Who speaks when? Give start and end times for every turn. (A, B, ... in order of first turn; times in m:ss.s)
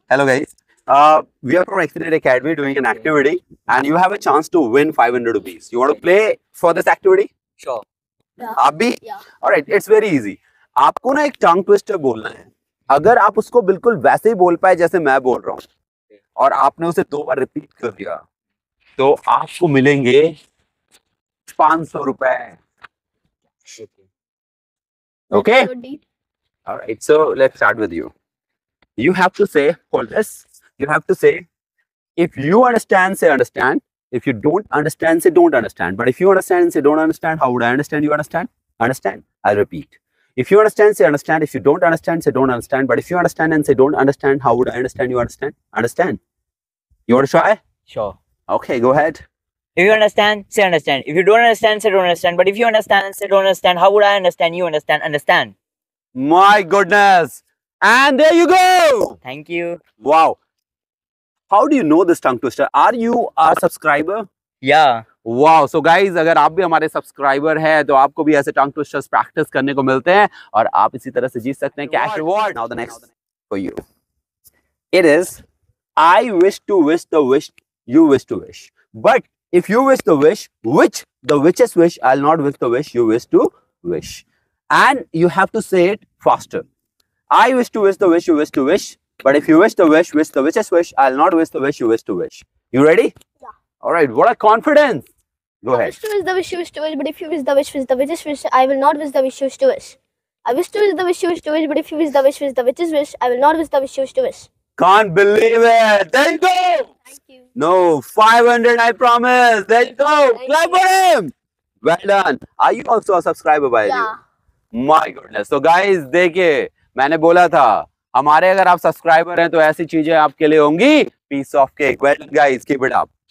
0:00.1-0:07.3 A
0:02.8-0:03.1 B
0:08.4-0:09.2 C
0:08.6-0:15.6 A
0:16.4-0:18.2 A
0:19.0-0:20.3 A
0:21.5-0:22.6 A
0:25.3-0:25.7 A
0:25.3-0:26.0 C
0:26.7-0:28.1 A
0:29.0-0:31.4 A
0:32.2-0:46.2 A
0:47.1-0:47.6 A
0:47.9-0:48.2 B
0:48.5-0:49.2 A
0:49.8-0:55.5 B
0:56.2-0:59.2 A
0:59.2-0:59.8 B
1:00.0-1:00.4 A
1:01.5-1:04.3 A
1:04.6-1:05.0 B
1:05.2-1:13.8 A
1:11.9-1:12.3 B
1:14.9-1:15.4 A
1:16.0-1:26.6 A
1:27.3-1:33.1 A
1:33.8-1:35.1 A
1:35.6-1:36.0 A
1:35.7-1:44.5 C
1:44.8-1:46.9 A
1:47.1-1:47.4 C
1:47.5-1:51.3 A
1:50.3-1:50.8 C
1:51.8-1:54.1 A
1:53.8-1:54.2 C
1:54.7-2:03.1 A